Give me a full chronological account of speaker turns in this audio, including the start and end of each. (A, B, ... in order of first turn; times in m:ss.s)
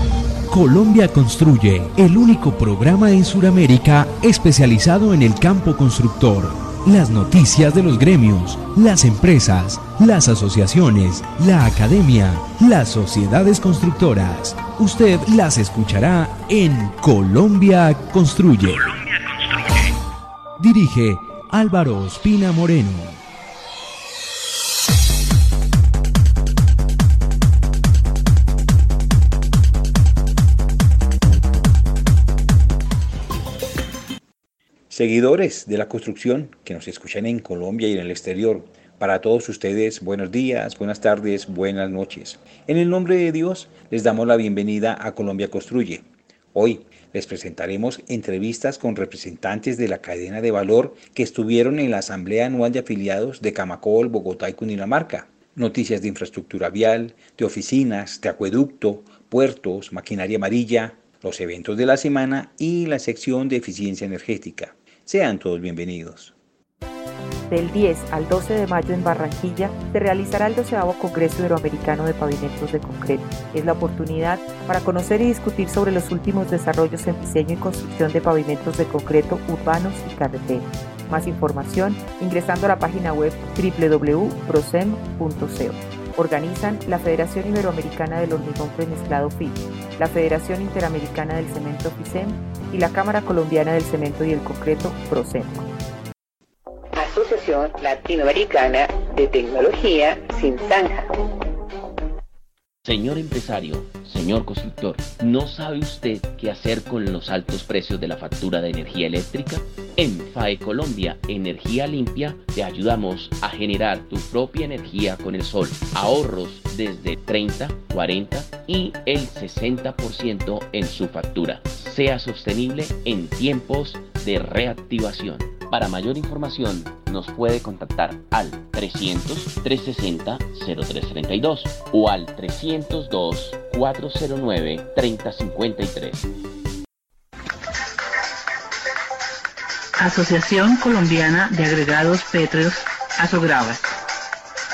0:00.5-0:19.8 A
0:20.6-0:23.2 A
0:34.9-1:06.3 B
1:07.5-1:35.7 C
1:37.0-1:41.1 D
1:42.8-2:16.3 E
2:20.0-2:23.8 F